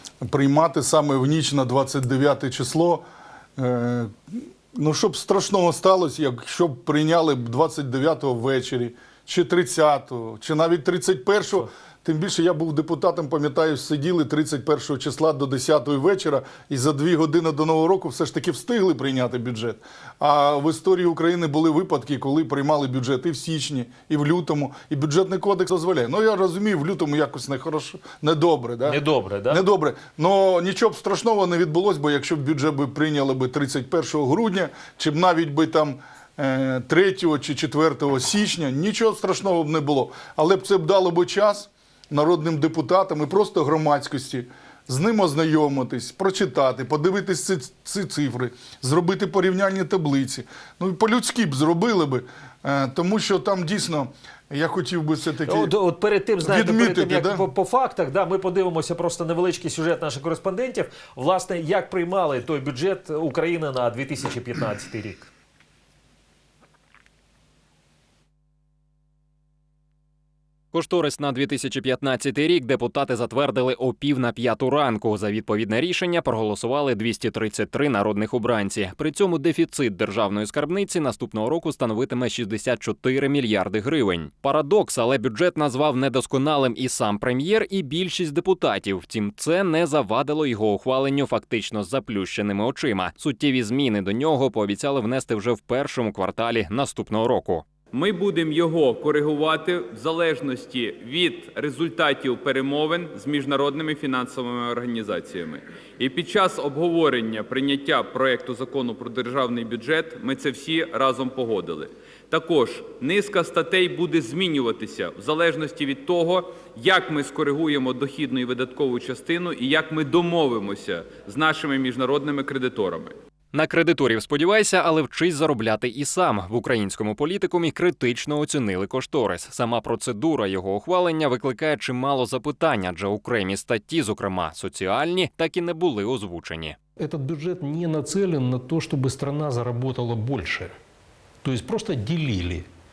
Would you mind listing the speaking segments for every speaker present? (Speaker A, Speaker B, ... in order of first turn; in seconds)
Speaker A: 0.2-3.0, 3.6-55.7, 56.4-57.4
Speaker B: 28.9-29.6, 55.5-65.3
Speaker C: 70.7-97.7, 123.5-136.8
Speaker D: 97.9-123.2
Speaker E: 137.0-140.7, 141.4-142.7